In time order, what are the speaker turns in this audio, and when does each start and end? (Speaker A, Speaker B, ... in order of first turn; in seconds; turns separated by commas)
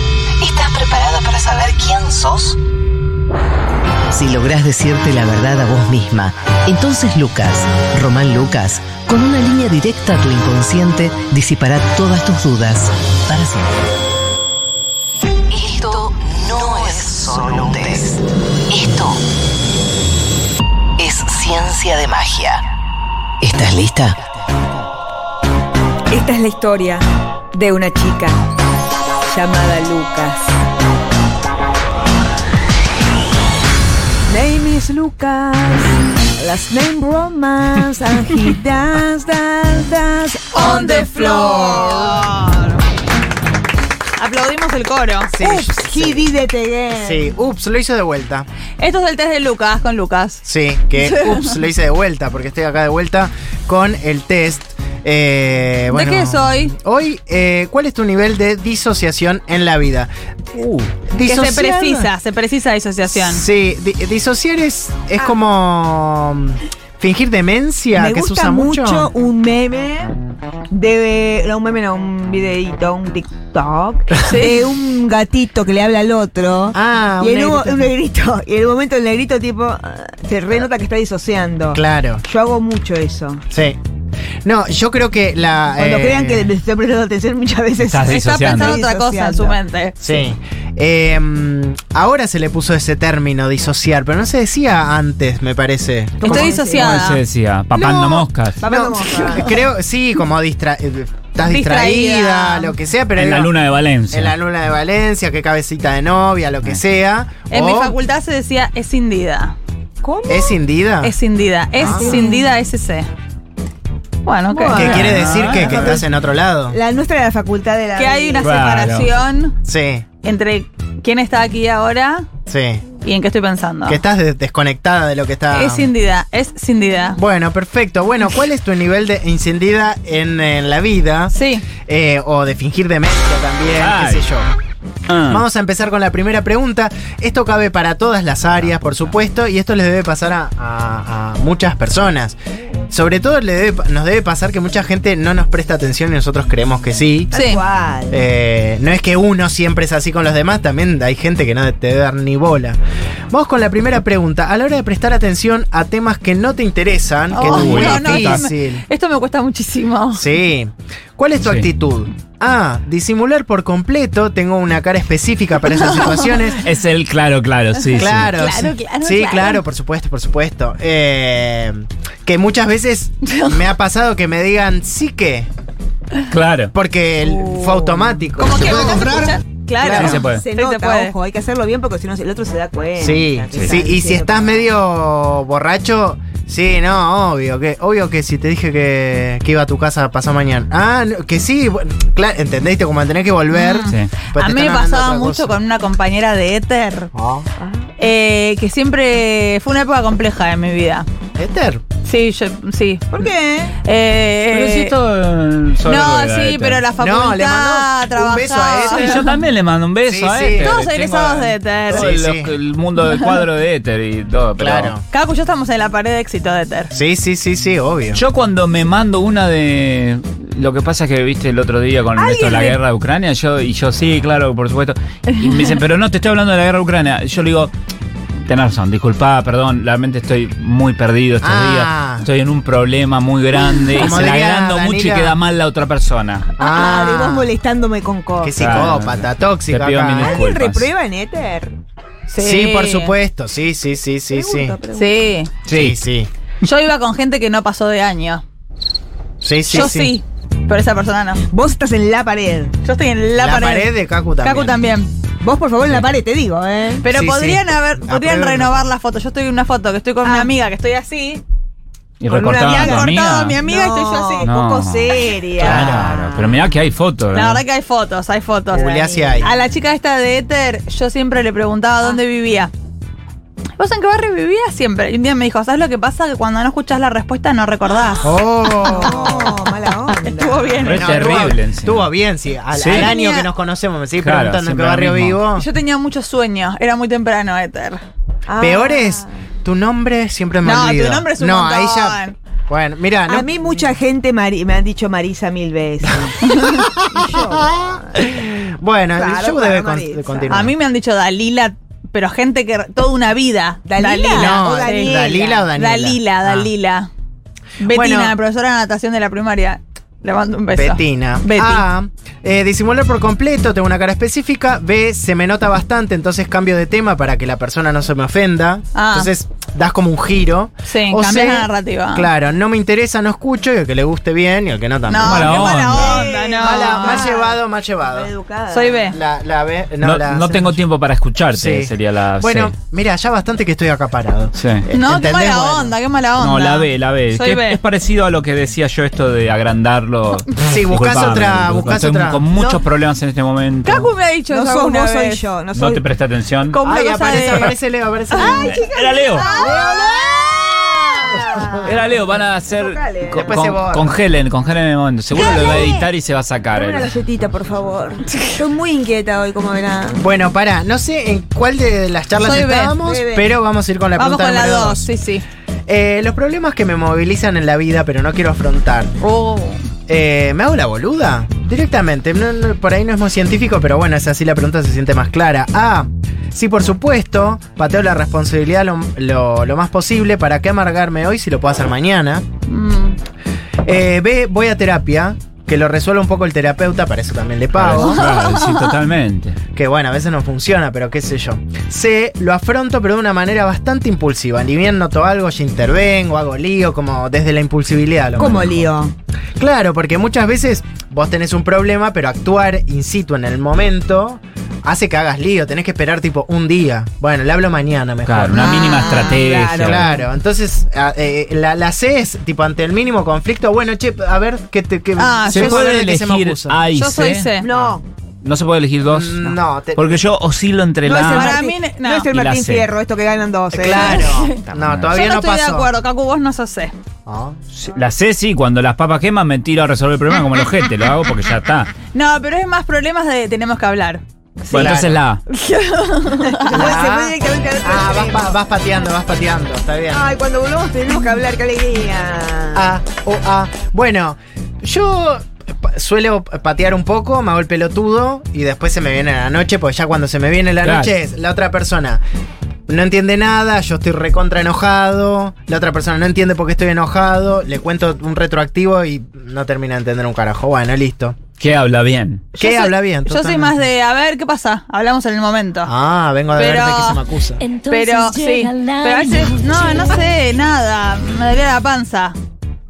Speaker A: 0.4-2.6, Speaker A: 4.1-13.7, Speaker A: 15.5-19.2, Speaker A: 21.0-22.6, Speaker A: 23.4-24.2, Speaker B: 26.1-28.4, Speaker B: 29.3-30.5, Speaker B: 34.3-40.8, Speaker C: 40.5-42.8, Speaker D: 40.5-42.3, Speaker C: 44.2-45.5, Speaker D: 45.3-46.3, Speaker B: 45.6-47.2, Speaker D: 46.9-48.5, Speaker C: 48.8-50.4, Speaker D: 50.4-60.1, Speaker C: 51.0-51.6, Speaker C: 55.9-56.7, Speaker E: 60.5-60.9, Speaker D: 61.0-62.1, Speaker C: 61.2-63.5, Speaker D: 63.0-69.1, Speaker B: 68.0-70.2, Speaker B: 70.7-83.4, Speaker C: 74.2-74.6, Speaker D: 76.7-77.9, Speaker D: 81.7-82.2, Speaker D: 83.5-83.8, Speaker D: 84.5-86.5, Speaker B: 85.7-89.6, Speaker E: 87.8-88.8, Speaker C: 88.1-90.0, Speaker D: 90.0-96.6, Speaker B: 96.2-97.0, Speaker C: 96.2-97.2, Speaker E: 96.7-98.6, Speaker D: 97.7-103.5, Speaker B: 98.6-99.7, Speaker C: 101.4-102.8, Speaker E: 103.2-104.4, Speaker D: 104.1-108.0, Speaker C: 107.5-109.5, Speaker B: 110.0-110.6, Speaker D: 110.3-111.2, Speaker C: 111.0-113.1, Speaker D: 111.8-112.3, Speaker B: 111.8-112.5, Speaker C: 114.2-114.9, Speaker B: 114.5-116.0, Speaker D: 114.7-116.8, Speaker E: 114.7-116.0, Speaker B: 116.7-118.5, Speaker C: 118.0-119.5, Speaker E: 118.4-119.1, Speaker D: 119.6-120.0, Speaker C: 120.2-122.3, Speaker D: 122.5-122.8, Speaker C: 123.0-124.0, Speaker D: 123.8-125.9, Speaker C: 125.5-127.2, Speaker D: 127.2-134.5, Speaker C: 131.3-131.7, Speaker E: 133.7-134.3, Speaker E: 135.1-135.4, Speaker D: 135.3-142.4, Speaker E: 138.6-139.1, Speaker D: 142.9-147.3, Speaker B: 147.3-148.2, Speaker C: 147.3-147.6, Speaker D: 148.1-152.8, Speaker D: 153.3-158.8, Speaker C: 157.3-160.3, Speaker E: 157.4-158.5, Speaker D: 160.1-166.6, Speaker E: 161.4-161.7, Speaker C: 165.7-166.6, Speaker E: 166.6-168.3, Speaker D: 167.9-175.5, Speaker C: 168.3-169.6, Speaker C: 173.2-173.6, Speaker E: 176.3-176.7, Speaker D: 176.7-180.2, Speaker B: 177.2-178.3, Speaker C: 178.4-181.2, Speaker E: 180.0-180.5, Speaker B: 180.3-184.7, Speaker D: 183.0-195.6, Speaker C: 193.5-197.1, Speaker D: 197.1-197.5, Speaker B: 197.6-197.9, Speaker C: 198.0-201.1, Speaker D: 201.4-201.8, Speaker C: 202.0-203.2, Speaker B: 203.1-203.8, Speaker C: 203.8-205.0, Speaker E: 204.5-206.8, Speaker C: 205.8-209.3, Speaker D: 207.0-209.3, Speaker E: 208.9-215.0, Speaker D: 210.1-210.8, Speaker C: 210.6-212.1, Speaker D: 211.9-212.5, Speaker D: 214.6-215.1, Speaker C: 215.1-216.9, Speaker D: 216.9-218.2, Speaker E: 218.1-227.7, Speaker B: 222.2-222.8, Speaker E: 228.5-236.5, Speaker D: 231.4-232.3, Speaker D: 233.9-235.4, Speaker D: 236.6-237.5, Speaker B: 236.6-238.7, Speaker D: 238.4-240.4, Speaker E: 238.6-240.9, Speaker B: 240.2-241.8, Speaker C: 242.3-243.2, Speaker D: 242.4-244.8, Speaker B: 244.3-245.2, Speaker C: 244.9-245.5, Speaker E: 245.7-246.0, Speaker D: 245.7-246.3, Speaker C: 246.6-248.4, Speaker D: 249.4-250.2, Speaker C: 249.7-251.4, Speaker B: 251.5-252.7, Speaker C: 252.8-255.1, Speaker D: 253.3-254.8, Speaker B: 255.4-257.1, Speaker C: 257.0-261.4, Speaker D: 257.1-258.9, Speaker B: 260.2-260.5, Speaker E: 262.2-263.6, Speaker B: 262.3-266.7, Speaker C: 262.6-264.5, Speaker E: 264.4-267.6, Speaker D: 265.6-266.1, Speaker C: 267.3-268.8, Speaker D: 268.7-269.5, Speaker B: 268.7-269.6, Speaker C: 269.4-272.7, Speaker C: 273.8-278.4, Speaker D: 278.2-279.5, Speaker B: 278.8-280.9, Speaker C: 280.2-281.5, Speaker E: 280.8-282.1, Speaker D: 280.9-285.7, Speaker E: 282.7-283.1, Speaker C: 282.9-283.5, Speaker E: 284.2-285.4, Speaker C: 285.5-288.0, Speaker B: 288.5-289.3, Speaker D: 288.6-293.7, Speaker C: 290.6-292.4, Speaker B: 293.3-298.3, Speaker D: 296.3-300.7, Speaker B: 299.1-300.5, Speaker C: 300.5-307.1, Speaker B: 303.9-305.7, Speaker D: 304.4-306.7, Speaker C: 307.8-311.9, Speaker D: 307.9-308.4, Speaker D: 310.7-328.3, Speaker C: 318.9-319.3, Speaker C: 320.9-322.3, Speaker C: 325.1-327.3, Speaker E: 325.2-326.3, Speaker B: 325.9-329.2, Speaker C: 328.7-329.2, Speaker D: 329.1-330.8, Speaker E: 330.0-332.7, Speaker D: 331.5-335.9, Speaker E: 334.6-334.8, Speaker C: 334.9-337.8, Speaker E: 336.4-344.1, Speaker D: 340.6-342.5, Speaker B: 342.6-342.8, Speaker C: 343.9-345.4, Speaker B: 344.5-346.0, Speaker E: 345.7-346.8, Speaker C: 346.7-347.7, Speaker D: 346.8-348.8, Speaker E: 347.3-347.7, Speaker B: 348.3-350.5, Speaker E: 348.6-349.5, Speaker C: 349.4-349.9, Speaker D: 349.5-351.9, Speaker B: 351.1-352.1, Speaker E: 351.9-357.1, Speaker B: 352.7-353.6, Speaker D: 353.3-354.2, Speaker B: 355.4-356.0, Speaker C: 355.4-356.0, Speaker B: 356.7-360.2, Speaker D: 360.1-365.1, Speaker C: 362.4-362.9, Speaker B: 363.0-363.5, Speaker C: 364.2-365.4, Speaker D: 365.9-369.1, Speaker C: 369.2-369.8, Speaker D: 370.1-382.5, Speaker C: 382.7-383.2, Speaker D: 383.8-388.2, Speaker E: 387.8-389.6, Speaker C: 388.0-388.8, Speaker D: 389.7-398.9, Speaker B: 398.4-399.1, Speaker D: 399.6-409.0, Speaker E: 408.2-410.1, Speaker C: 408.6-409.4, Speaker B: 408.8-410.3, Speaker D: 409.6-416.8, Speaker C: 415.2-415.9, Speaker E: 415.5-417.5, Speaker C: 416.9-417.7, Speaker B: 417.6-418.0, Speaker D: 417.7-418.0, Speaker E: 418.4-421.6, Speaker D: 419.1-420.2, Speaker B: 421.0-424.3, Speaker C: 421.2-422.3, Speaker E: 422.3-422.9, Speaker D: 423.7-425.9, Speaker C: 424.0-426.9, Speaker E: 424.7-425.2, Speaker D: 427.3-427.6, Speaker E: 427.7-431.9, Speaker C: 432.1-436.9, Speaker D: 434.7-435.2, Speaker E: 434.7-435.4, Speaker B: 436.5-438.6, Speaker D: 436.7-440.3, Speaker B: 440.1-442.9, Speaker D: 442.7-452.2, Speaker E: 450.8-451.1, Speaker D: 452.9-461.4, Speaker E: 461.6-462.4, Speaker D: 462.5-463.9, Speaker C: 462.6-465.9, Speaker D: 465.9-467.7, Speaker C: 466.5-467.2, Speaker C: 467.8-472.4